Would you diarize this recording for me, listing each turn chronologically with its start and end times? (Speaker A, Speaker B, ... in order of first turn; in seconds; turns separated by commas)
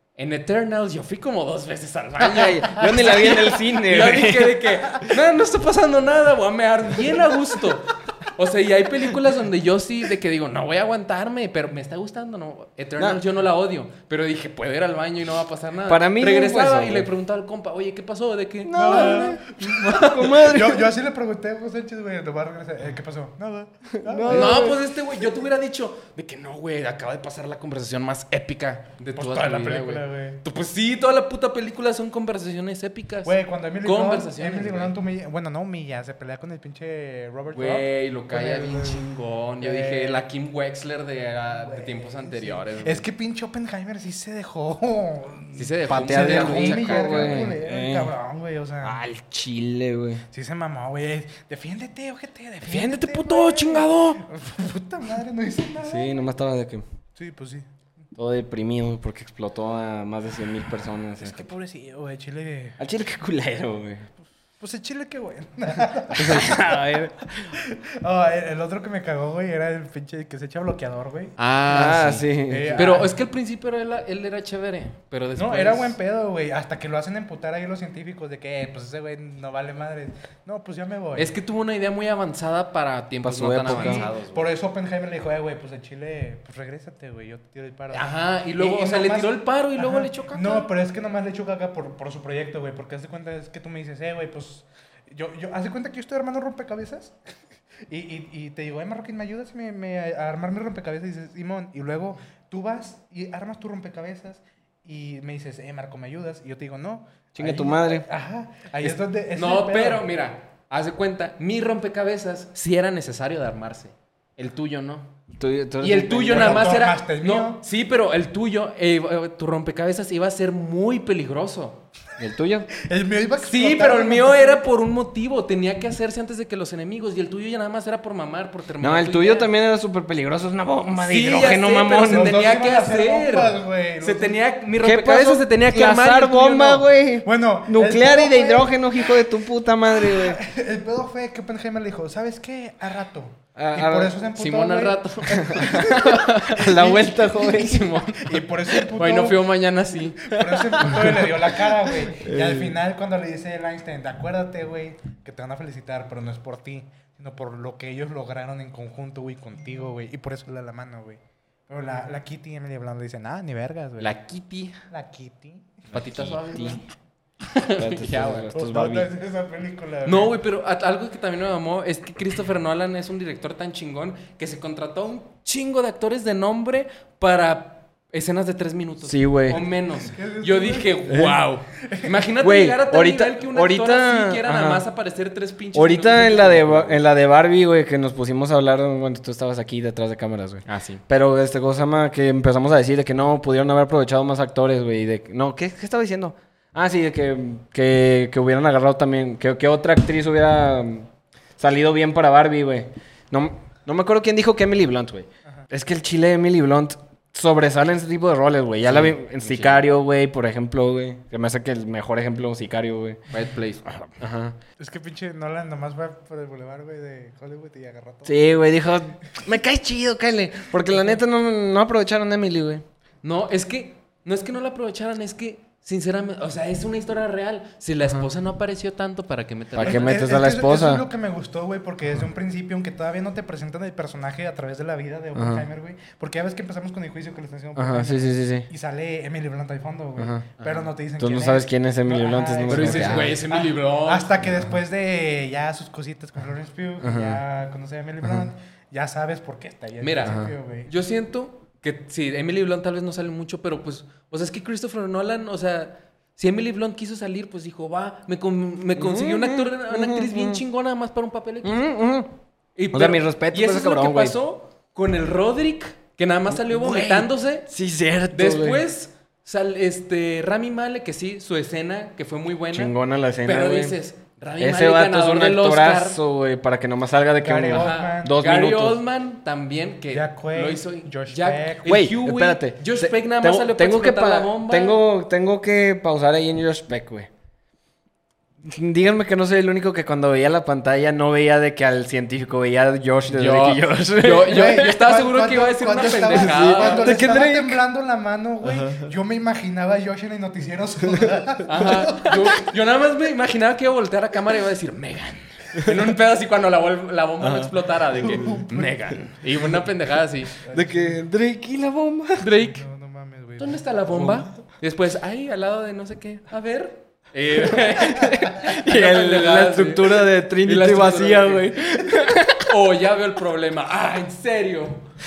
Speaker A: 0.2-20.4, Speaker B: 2.2-5.2, Speaker B: 13.0-13.2, Speaker B: 15.9-17.1, Speaker B: 18.6-20.9, Speaker C: 18.7-24.7, Speaker B: 24.0-24.8, Speaker A: 24.3-34.9, Speaker C: 29.1-30.4, Speaker C: 33.2-39.1, Speaker A: 37.5-43.1, Speaker C: 39.6-40.2, Speaker C: 41.5-49.0, Speaker A: 45.6-47.5, Speaker B: 45.9-48.1, Speaker B: 48.8-50.2, Speaker C: 50.3-56.3, Speaker B: 52.7-53.3, Speaker A: 52.7-54.2, Speaker B: 55.8-56.8, Speaker C: 57.1-57.7, Speaker B: 58.2-61.5, Speaker C: 61.2-62.8, Speaker B: 62.8-64.1, Speaker C: 64.6-71.4, Speaker B: 66.1-67.6, Speaker A: 66.2-66.5, Speaker A: 71.4-76.0, Speaker B: 71.7-73.1, Speaker C: 72.5-73.2, Speaker C: 75.4-81.3, Speaker A: 81.2-84.5, Speaker B: 83.2-84.1, Speaker C: 83.7-97.2, Speaker A: 87.9-90.7, Speaker C: 97.9-110.0, Speaker B: 107.3-108.1, Speaker A: 109.3-115.1, Speaker B: 115.4-116.8, Speaker A: 115.8-121.8, Speaker C: 116.3-117.6, Speaker B: 122.2-122.7, Speaker C: 122.8-124.7, Speaker A: 123.4-129.5, Speaker B: 128.8-132.6, Speaker A: 131.0-136.9, Speaker C: 132.1-134.4, Speaker B: 134.8-140.4, Speaker C: 137.2-139.1, Speaker C: 139.9-149.4, Speaker B: 143.6-144.1, Speaker A: 144.3-151.1, Speaker B: 145.4-148.0, Speaker C: 150.2-164.2, Speaker B: 150.4-152.8, Speaker A: 164.0-164.8, Speaker C: 164.9-165.9, Speaker B: 165.9-166.8, Speaker A: 165.9-166.8, Speaker A: 167.4-168.5, Speaker B: 167.8-169.1, Speaker C: 168.5-170.4, Speaker A: 170.1-187.0, Speaker B: 179.0-179.6, Speaker C: 180.0-182.2, Speaker B: 181.1-181.4, Speaker B: 182.4-184.8, Speaker B: 185.7-213.2, Speaker A: 190.7-191.0, Speaker A: 208.8-209.9, Speaker A: 213.3-214.1, Speaker B: 214.2-214.6, Speaker C: 214.8-218.5, Speaker B: 218.3-222.8, Speaker A: 223.2-230.3, Speaker B: 229.7-231.1, Speaker C: 229.8-250.9, Speaker B: 235.3-235.7, Speaker B: 237.8-238.7, Speaker B: 240.2-240.5, Speaker A: 240.6-240.9, Speaker B: 241.2-243.4, Speaker A: 242.7-244.4, Speaker B: 247.0-247.4, Speaker A: 250.0-261.8, Speaker B: 250.2-250.5, Speaker B: 258.9-260.6, Speaker B: 261.6-262.3, Speaker A: 262.8-267.7, Speaker B: 262.9-264.4, Speaker B: 266.5-268.9, Speaker A: 268.3-276.2, Speaker B: 272.7-274.0, Speaker B: 274.6-279.0, Speaker C: 277.4-278.4, Speaker A: 277.7-285.0, Speaker C: 280.1-282.0, Speaker B: 281.9-287.3, Speaker B: 288.6-294.9, Speaker A: 293.3-297.3, Speaker C: 294.4-302.6, Speaker B: 296.2-297.8, Speaker B: 298.6-299.1, Speaker B: 301.1-302.6, Speaker A: 301.7-310.6, Speaker B: 307.4-307.7, Speaker C: 308.1-309.2, Speaker C: 310.6-311.3, Speaker B: 310.7-312.6, Speaker A: 312.4-312.8, Speaker C: 312.6-313.8, Speaker A: 313.6-325.1, Speaker B: 314.1-314.5, Speaker B: 317.6-322.7